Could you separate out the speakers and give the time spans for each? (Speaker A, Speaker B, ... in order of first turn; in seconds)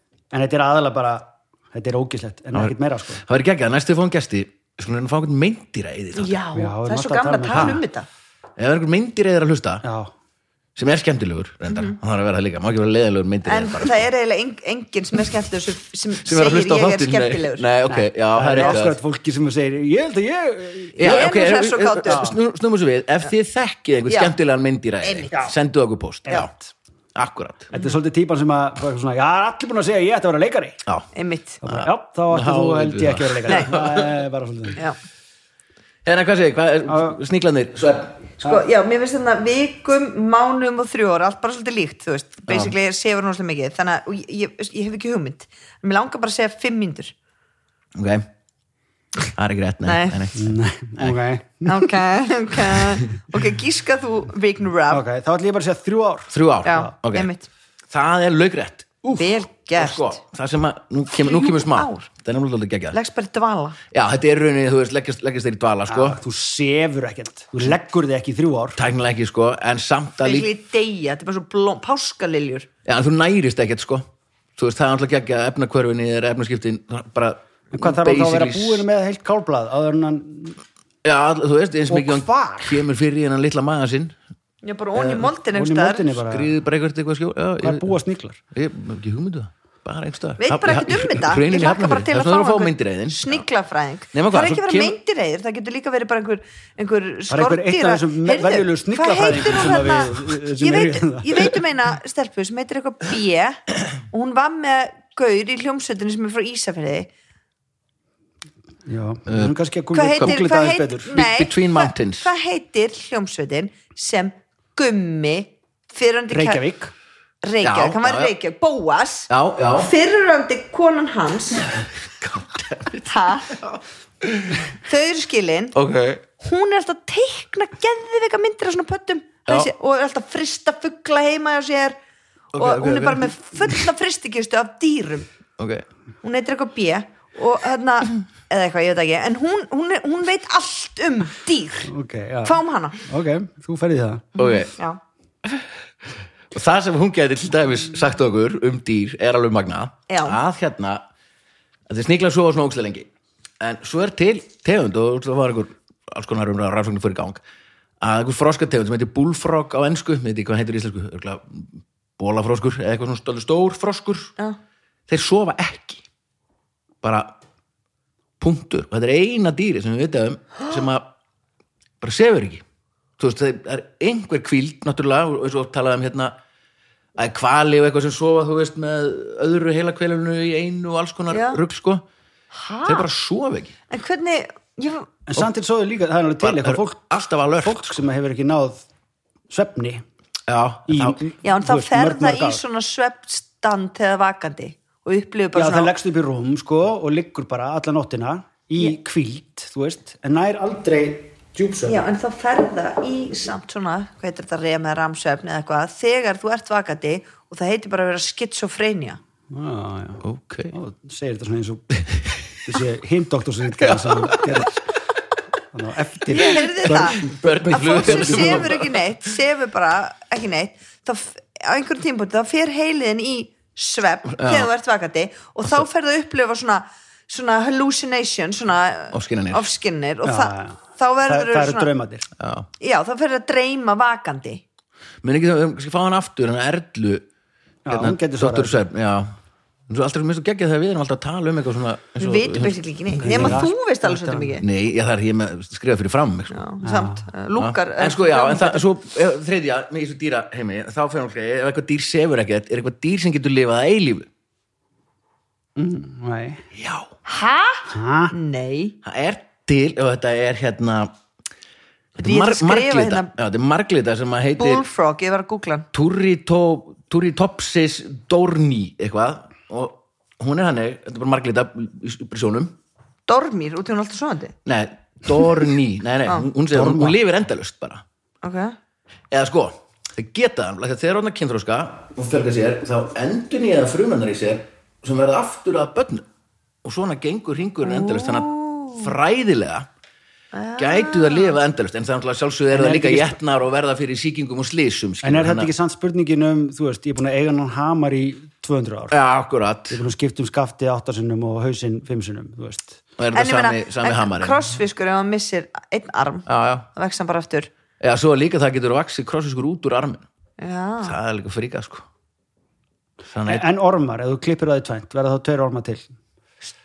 Speaker A: 0.3-3.2, 6.5-7.8, 9.8-10.1, 18.3-21.3, 22.1-22.4, 26.3-26.7, 27.7-30.8, 31.6-34.8, 36.9-37.2, 50.4-51.9, 54.9-56.4, 65.9-68.8, 77.7-80.6, 81.9-82.8, 85.0-86.5, 87.6-88.4, 97.3-101.5, 108.9-111.2, 116.3-116.9, 141.8-144.3, 185.3-187.0, 187.6-188.8, 189.5-190.0, 190.9-192.6, 195.5-202.0, 209.5-211.9, 212.7-214.8, 215.7-218.7, 230.2-232.3, 237.9-238.8, 243.2-244.6, 246.8-247.3, 255.8-256.6, 257.9-258.3, 276.7-277.2, 292.7-293.4, 295.2-299.1, 299.9-303.0, 313.5-316.1
Speaker B: 2.5-6.4, 7.5-7.8, 8.6-9.8, 10.8-14.1, 16.2-19.0, 21.0-26.5, 27.1-27.7, 31.6-34.2, 36.0-38.3, 42.5-42.8, 48.0-48.3, 49.4-51.2, 56.3-57.3, 57.9-63.0, 63.9-66.2, 68.8-70.5, 72.8-74.1, 74.6-78.9, 81.0-84.2, 86.2-88.0, 88.5-93.5, 94.1-95.0, 109.3-109.5, 111.1-112.3, 117.6-118.3, 119.3-119.9, 121.8-124.7, 125.8-126.2, 132.5-133.8, 135.6-135.8, 144.4-144.7, 146.5-151.1, 151.9-153.1, 153.6-157.4, 158.0-164.3, 165.1-166.0, 167.0-167.3, 168.4-171.1, 172.0-172.6, 173.2-176.3, 177.2-182.0, 182.8-183.7, 186.4-188.0, 190.5-191.2, 210.2-210.8, 212.0-212.4, 213.8-214.7, 216.5-219.1, 224.3-224.7, 229.1-229.7, 232.4-232.7, 235.2-237.2, 237.9-239.3, 239.9-243.6, 244.6-246.6, 247.6-254.3, 256.8-257.1, 259.0-261.1, 262.2-264.8, 265.9-272.8, 274.7-278.0, 279.3-286.2, 286.8-289.9, 290.8-295.7, 299.1-300.0, 303.2-304.6, 306.5-306.9, 308.0-310.2, 311.0-312.0, 313.3-313.6
Speaker C: 6.2-8.1, 11.7-12.0, 13.4-18.1, 21.0-22.4, 24.1-24.3, 25.0-25.5, 27.7-28.0, 31.1-31.6, 38.4-47.1, 49.8-50.2, 51.6-55.0, 56.6-57.5, 59.1-60.2, 61.1-62.1, 62.9-63.8, 70.2-72.7, 84.6-86.2, 90.4-107.1, 109.9-116.7, 117.4-121.7, 123.1-123.6, 124.8-125.8, 126.4-132.0, 132.5-135.3, 136.2-141.9, 142.4-143.0, 144.4-145.0, 150.1-150.4, 181.3-181.6, 182.5-183.1, 183.9-185.1, 191.4-195.9, 201.9-209.2, 216.3-231.9, 232.8-234.6, 242.2-244.7, 246.5-248.9, 257.3-259.0, 262.2-263.3, 264.6-265.9, 273.3-274.5, 278.4-278.8, 287.8-289.1, 290.5-291.6, 303.3-307.7, 310.6-311.2